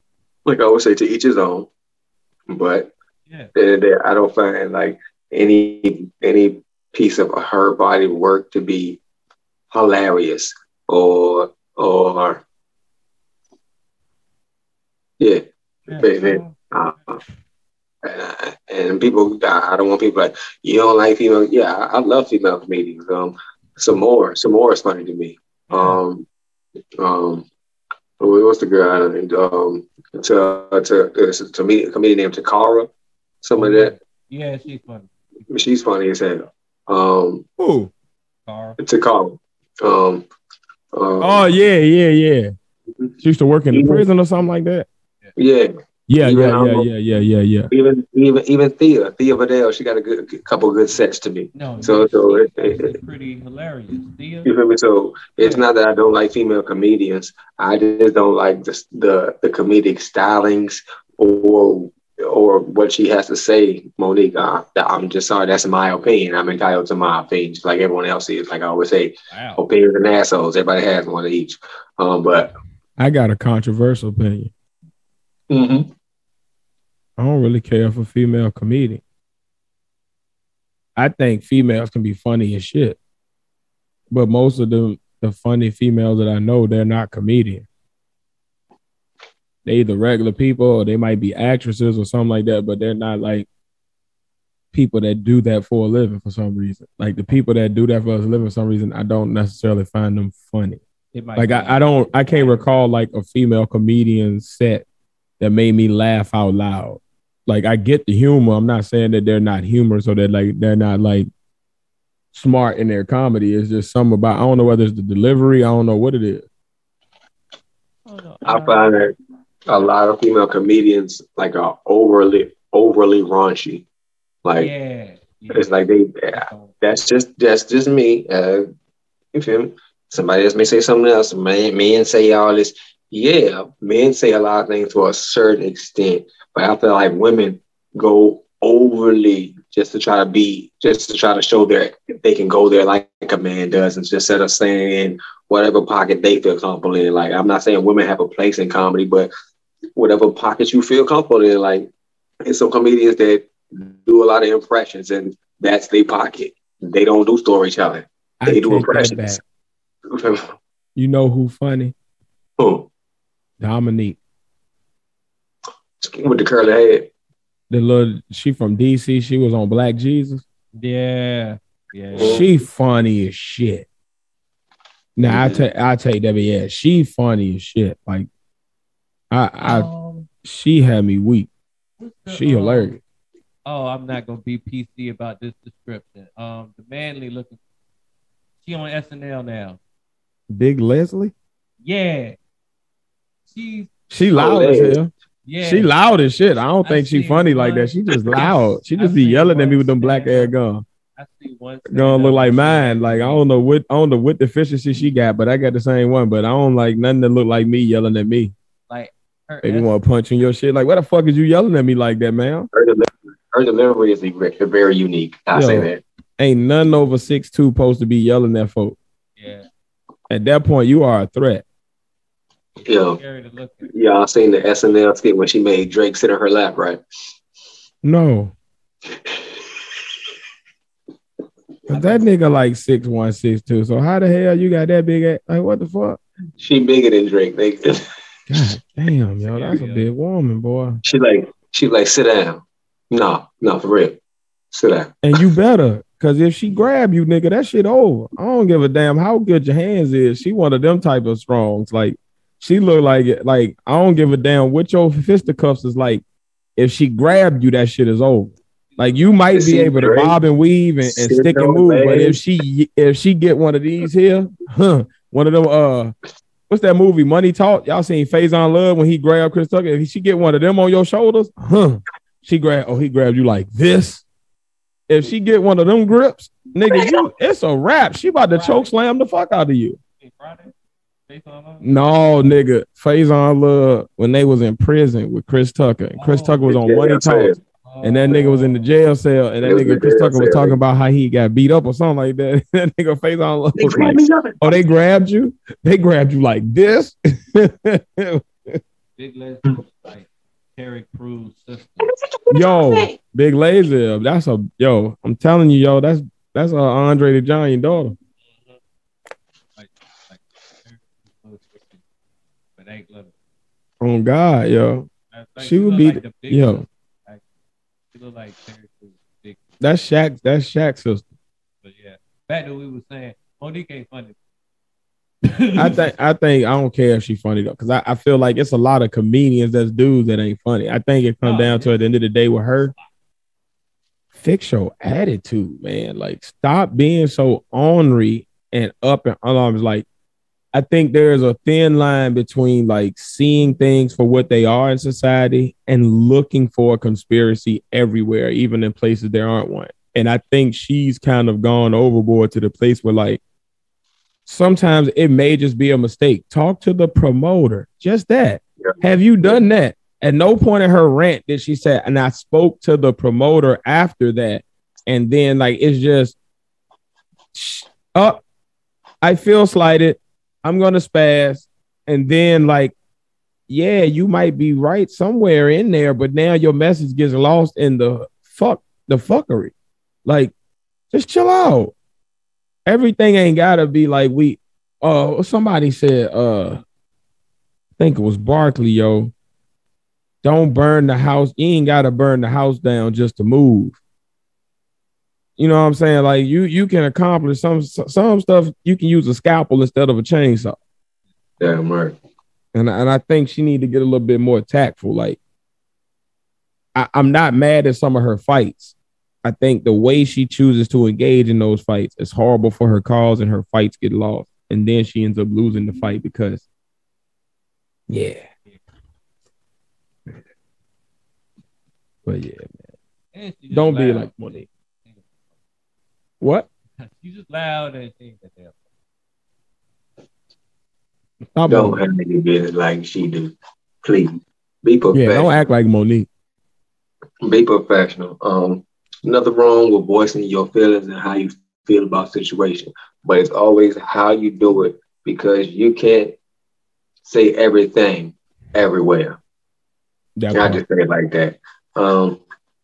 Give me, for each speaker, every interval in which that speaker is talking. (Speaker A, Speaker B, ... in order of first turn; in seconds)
Speaker A: 0.5-1.7, 2.5-2.9, 3.5-9.0, 9.7-12.4, 16.0-17.2, 18.0-26.3, 27.0-27.5, 28.2-32.9, 33.4-33.9, 35.5-37.5, 38.8-40.3, 40.9-41.4, 43.7-44.0, 45.4-45.7, 46.2-46.9, 47.7-53.0, 54.5-72.5, 75.5-75.9, 118.5-119.1, 119.7-123.9, 124.4-124.7, 125.5-128.7, 129.3-149.3, 150.0-151.9, 152.4-159.4, 160.1-160.5, 162.6-162.9, 166.0-167.1, 172.2-172.5, 175.2-175.7, 194.3-195.0, 212.7-216.0, 222.8-223.2, 223.9-227.0, 236.6-238.0, 241.1-244.2, 244.7-245.4, 259.5-260.4, 261.0-262.4, 286.7-287.6, 289.6-290.8, 293.8-294.8, 302.1-303.1, 358.8-359.6, 401.6-402.2, 431.7-435.7, 437.4-446.4, 447.2-449.4, 450.5-452.4
Speaker B: 3.3-3.5, 15.9-16.6, 25.7-26.0, 33.6-35.1, 38.5-38.8, 51.5-54.5, 55.4-55.7, 69.3-69.6, 101.1-102.7, 118.1-118.9, 124.5-125.8, 126.3-126.8, 170.8-172.5, 179.6-180.3, 182.0-182.9, 183.7-187.6, 188.6-189.8, 191.8-192.4, 193.5-193.9, 195.4-195.9, 196.8-200.5, 201.2-203.5, 208.9-209.9, 219.4-219.7, 222.8-223.9, 231.9-232.2, 239.4-240.1, 241.0-241.6, 258.9-259.4, 278.5-278.9, 280.2-280.7, 281.3-281.9, 286.2-286.7, 287.9-288.9, 299.2-302.1, 308.4-308.8, 309.8-312.0, 312.8-313.3, 315.3-317.5, 318.1-319.6, 321.8-324.4, 325.4-326.1, 331.4-332.1, 332.8-333.1, 423.3-425.5, 427.0-428.8
Speaker C: 37.6-37.9, 41.2-42.5, 43.2-44.9, 46.1-47.7, 73.0-74.5, 77.2-79.0, 81.0-83.0, 84.1-87.7, 89.7-93.5, 94.7-100.8, 101.4-104.8, 105.4-111.3, 112.3-116.5, 158.4-159.4, 161.0-161.9, 163.6-164.2, 167.7-170.4, 172.2-173.9, 175.2-178.3, 179.3-179.9, 180.4-181.5, 182.3-183.0, 190.5-191.3, 194.1-200.8, 201.9-208.5, 209.6-212.7, 215.5-219.0, 220.3-221.6, 228.0-228.5, 231.9-236.2, 238.5-241.0, 245.2-256.2, 256.8-266.1, 266.7-274.2, 275.1-280.0, 281.8-298.8, 302.5-308.2, 314.0-315.1, 315.6-316.8, 319.8-321.3, 325.8-332.9, 334.4-340.1, 340.7-353.4, 354.5-366.4, 367.5-368.4, 369.2-372.9, 373.7-379.7, 380.2-380.5, 381.1-381.9, 382.9-386.8, 388.0-389.3, 390.4-394.0, 395.6-400.8, 402.7-405.4, 406.9-416.6, 418.1-418.5, 422.2-422.9, 423.7-424.7, 426.4-426.7, 431.6-432.0, 435.1-436.3, 450.4-450.8